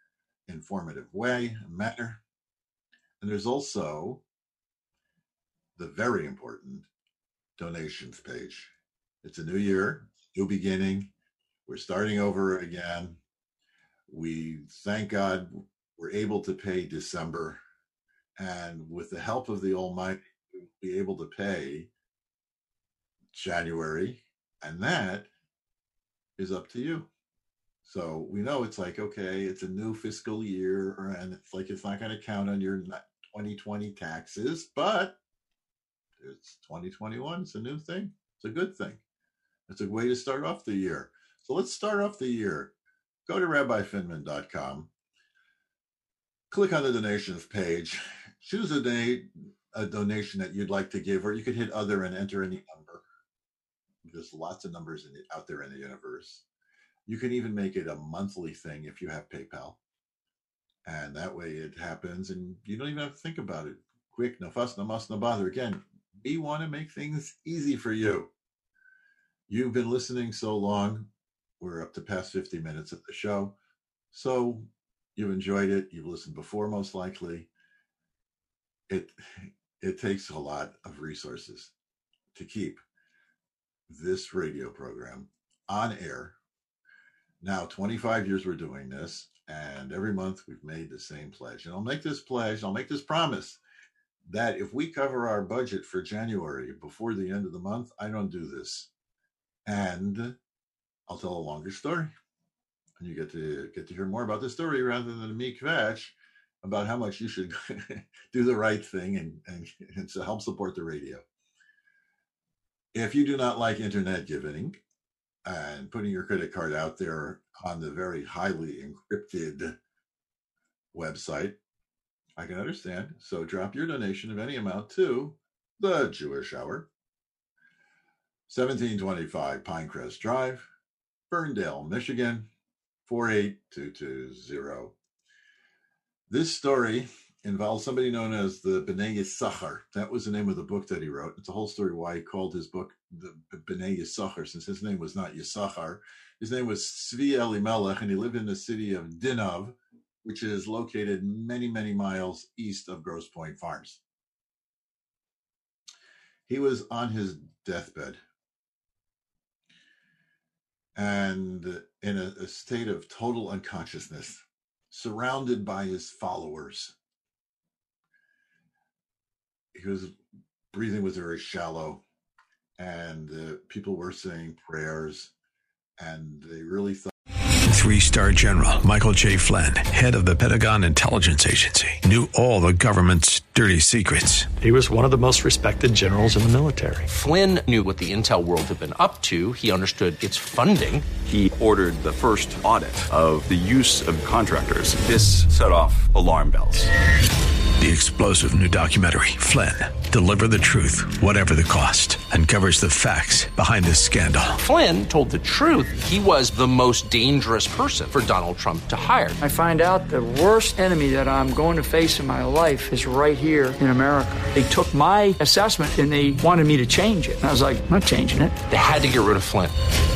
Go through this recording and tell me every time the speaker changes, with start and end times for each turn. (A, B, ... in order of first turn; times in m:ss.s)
0:00.5-0:02.2 A
0:03.2-0:04.2 A
0:05.8-0:06.9 A
0:07.6-0:11.1 A
0:11.7-0:13.2 A
0:14.1-0:17.6 A
0:18.4-0:21.9 A
0:23.3-0:25.3 A
0:26.4-0:27.1 A
0:27.8-0:35.2 A
0:36.2-0:39.0 A
0:39.7-0:42.7 A
0:43.3-0:44.9 A
0:46.5-0:53.0 A
0:54.0-0:56.4 A
0:57.1-0:59.8 A
1:00.8-1:08.3 A
1:09.5-1:11.1 A
1:11.6-1:13.6 A
1:14.1-1:17.5 A
1:18.9-1:21.7 A
1:22.3-1:22.8 A
1:23.9-1:26.4 A
1:27.4-1:33.6 A
1:34.2-1:38.9 A
1:39.7-1:40.4 A
1:41.1-1:42.1 A
1:43.0-1:51.2 A
1:52.9-1:54.8 A
1:55.4-1:59.8 A
2:00.9-2:01.6 A
2:02.4-2:06.9 A
2:08.5-2:10.7 A
2:11.3-2:12.5 A
2:13.1-2:14.9 A
2:16.3-2:34.0 A
2:36.5-2:38.2 A
2:41.0-2:47.0 A
2:49.7-2:50.2 A
2:50.7-2:52.0 A
2:52.8-2:55.3 A
2:56.0-2:57.1 A
2:57.7-3:04.5 B
3:04.7-3:07.0 C
3:07.1-3:11.1 D
3:11.2-3:16.9 E
3:17.8-3:24.6 B
3:24.6-3:29.4 D
3:29.4-3:38.6 F
3:38.7-3:39.8 D